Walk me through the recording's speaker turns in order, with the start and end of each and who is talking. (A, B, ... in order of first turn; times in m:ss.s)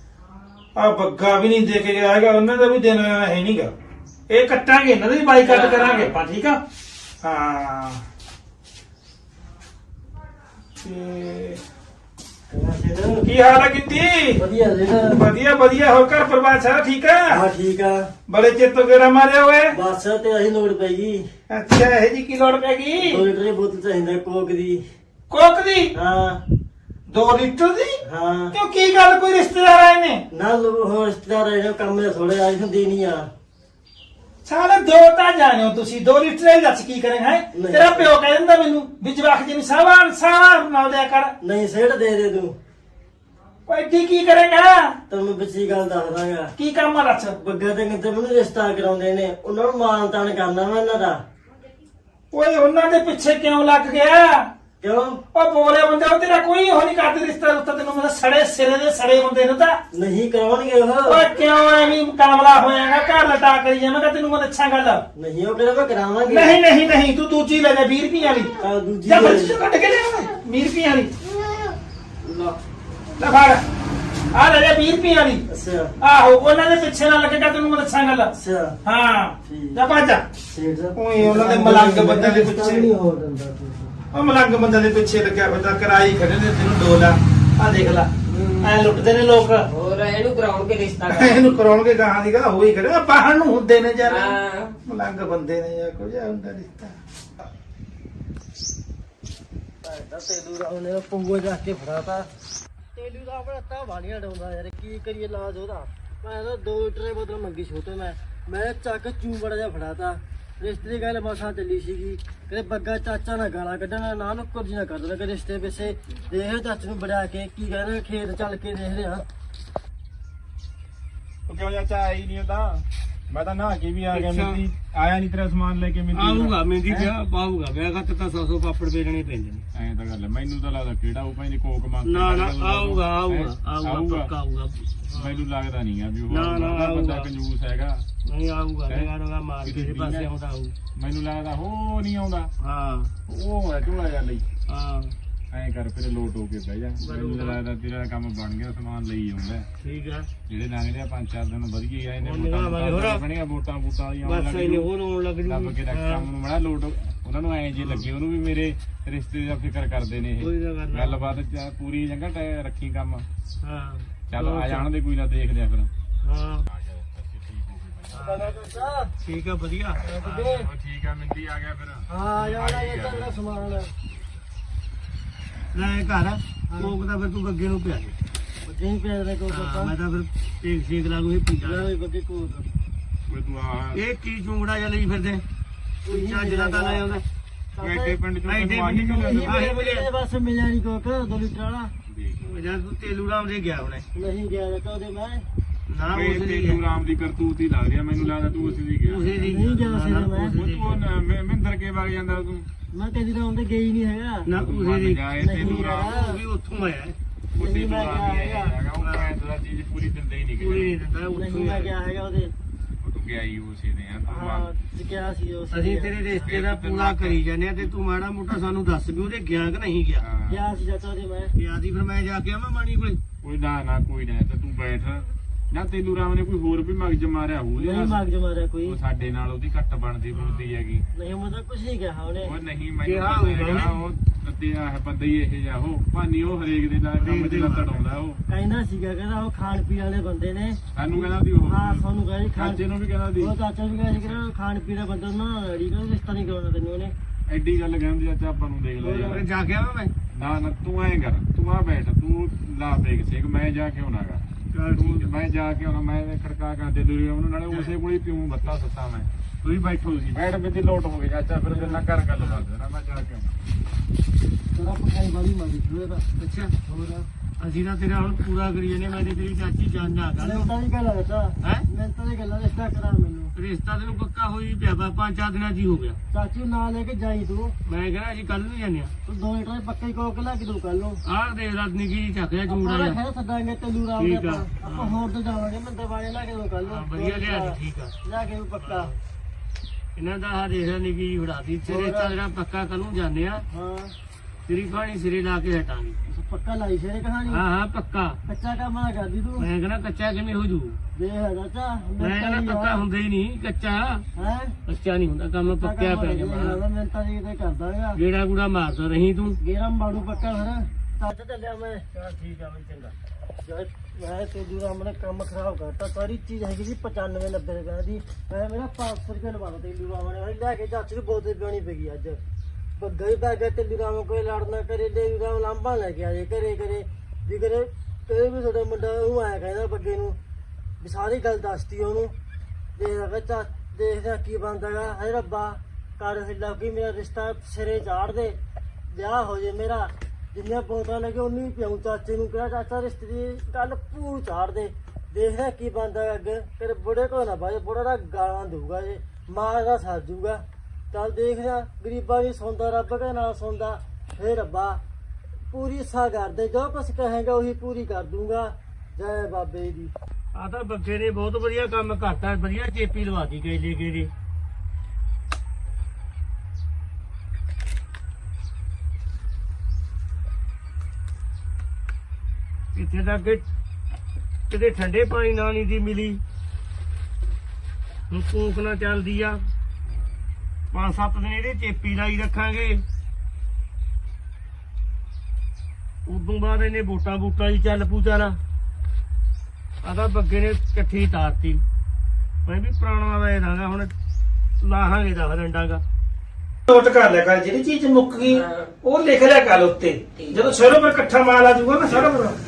0:00.8-0:03.7 A
0:04.3-0:06.6 A
0:05.5-0:06.1 B
0:07.2-0:08.0 A
0:10.8-0:11.6 A
0:12.5-0:13.3 C
0:13.2-0:14.4 A
0:14.4-0:15.2 C
0:15.1-0:17.4 A
0:17.3-0:18.1 C
0:18.3-0:19.8 A
0:19.7-0:21.3 C
0:21.5-0:23.2 A
0:23.0-0:24.8 C
0:25.3-0:25.9 A
0:26.0-0:26.4 C
0:27.1-0:28.0 A
0:28.0-0:28.5 C
0:28.5-0:30.2 A
0:30.3-0:33.3 C
0:34.4-0:41.3 A
0:37.5-0:38.1 C
0:41.4-0:42.6 C
0:43.7-0:45.0 A
0:45.1-0:46.5 C
0:46.6-0:47.4 A
0:47.4-0:51.2 C
0:52.3-0:54.5 A
0:54.8-0:55.2 C
0:55.3-0:59.8 A
0:59.9-1:01.2 C
1:01.1-1:05.0 A
1:05.2-1:06.6 C
1:06.3-1:11.1 A
1:08.6-1:09.6 C
1:12.2-1:12.5 C
1:13.2-1:13.6 A
1:14.3-1:15.4 A
1:15.5-1:16.0 C
1:16.0-1:18.3 A
1:18.4-1:18.8 C
1:18.8-1:20.3 A
1:19.5-1:19.8 C
1:20.5-1:24.0 C
1:21.0-1:22.9 A
1:24.1-1:28.1 A
1:28.3-1:28.7 B
1:28.6-1:29.7 A
1:29.7-1:31.6 B
1:31.1-1:37.0 A
1:34.1-1:34.8 B
1:39.8-1:42.3 C
1:42.9-1:59.2 C
2:01.5-2:07.1 D
2:04.1-2:04.6 E
2:06.1-2:09.6 E
2:09.7-2:14.3 D
2:12.0-2:15.4 E
2:15.0-2:18.0 D
2:16.3-2:17.3 E
2:18.2-2:20.8 E
2:19.6-2:20.3 D
2:21.0-2:22.5 D
2:22.6-2:23.1 E
2:23.3-2:24.4 D
2:24.7-2:25.2 E
2:25.5-2:29.7 D
2:27.0-2:27.6 E
2:29.8-2:30.3 E
2:30.5-2:34.9 D
2:32.2-2:33.2 E
2:34.2-2:36.3 E
2:35.5-2:43.3 D
2:37.8-2:38.1 E
2:40.4-2:41.2 E
2:43.6-2:44.9 E
2:44.3-2:45.9 D
2:46.2-2:46.7 E
2:46.7-2:48.4 D
2:48.1-2:48.5 E
2:48.2-2:49.1 C
2:49.2-2:50.7 E
2:50.1-2:50.5 C
2:50.2-2:53.4 D
2:52.1-2:53.9 C
2:55.7-2:58.2 E
2:58.6-3:00.0 C
2:59.5-3:01.9 E
3:01.6-3:02.7 C
3:03.3-3:04.0 D
3:03.9-3:05.4 E
3:06.0-3:07.2 E
3:06.1-3:07.1 C
3:07.8-3:08.2 C
3:07.8-3:09.2 D
3:08.4-3:10.1 E
3:09.1-3:11.9 C
3:12.1-3:12.5 D
3:12.4-3:14.0 E
3:14.1-3:15.5 C
3:15.9-3:16.8 E
3:16.1-3:19.3 D
3:18.9-3:21.0 E
3:19.3-3:20.7 C
3:20.6-3:22.7 D
3:22.9-3:24.5 C
3:24.5-3:27.2 E
3:24.5-3:26.1 D
3:25.4-3:26.4 C
3:27.5-3:28.8 C
3:27.5-3:31.0 D
3:28.9-3:29.3 E
3:30.6-3:31.9 E
3:31.3-3:32.5 C
3:33.0-3:34.7 D
3:34.3-3:36.5 C
3:35.7-3:40.3 E
3:36.4-3:37.9 D
3:40.2-3:40.6 D
3:40.5-3:41.5 C
3:41.6-3:43.2 E
3:43.4-3:48.2 D
3:47.8-3:49.0 C
3:48.8-3:51.0 D
3:50.3-3:50.7 E
3:51.1-3:52.5 C
3:52.4-3:58.4 D
3:53.0-3:54.1 E
3:57.2-3:58.0 E
3:58.5-4:02.8 C
4:00.9-4:03.5 D
4:03.4-4:07.1 C
4:07.5-4:09.5 D
4:09.0-4:10.1 E
4:10.3-4:23.5 D
4:14.7-4:15.3 E
4:17.7-4:18.0 E
4:22.4-4:22.6 E
4:24.7-4:26.3 C
4:26.4-4:30.7 E
4:26.9-4:27.2 C
4:30.4-4:33.5 C
4:31.6-4:31.9 E
4:33.6-4:36.2 E
4:36.3-4:37.7 C
4:37.8-4:39.1 E
4:39.3-4:41.2 C
4:41.3-4:43.2 E
4:42.7-4:49.1 C
4:44.2-4:45.2 E
4:46.8-4:48.2 E
4:48.8-4:49.2 E
4:50.2-4:53.6 E
4:51.9-4:52.4 C
4:53.7-4:54.2 C
4:54.7-4:56.2 E
4:56.3-4:57.6 C
4:57.5-4:58.4 E
4:58.5-4:59.7 C
4:59.6-5:01.0 E
5:01.2-5:03.0 C
5:02.2-5:04.3 E
5:04.4-5:04.8 C
5:04.8-5:06.8 E
5:05.6-5:08.2 C
5:08.1-5:09.6 E
5:09.6-5:22.4 C
5:23.0-5:30.4 C
5:31.0-5:32.3 C
5:33.0-5:38.6 C
5:39.1-5:55.0 C
5:55.7-6:00.1 C
6:00.6-6:04.3 E
6:13.0-6:13.6 E
6:14.7-6:16.4 E
6:18.3-6:19.6 E
6:20.9-6:23.0 E
6:26.3-6:28.6 E
6:30.0-6:31.8 E
6:32.7-6:34.1 E
6:34.8-6:36.0 E
6:36.9-6:42.6 A
6:38.5-6:38.9 B
6:40.4-6:40.8 B
6:42.1-6:42.3 D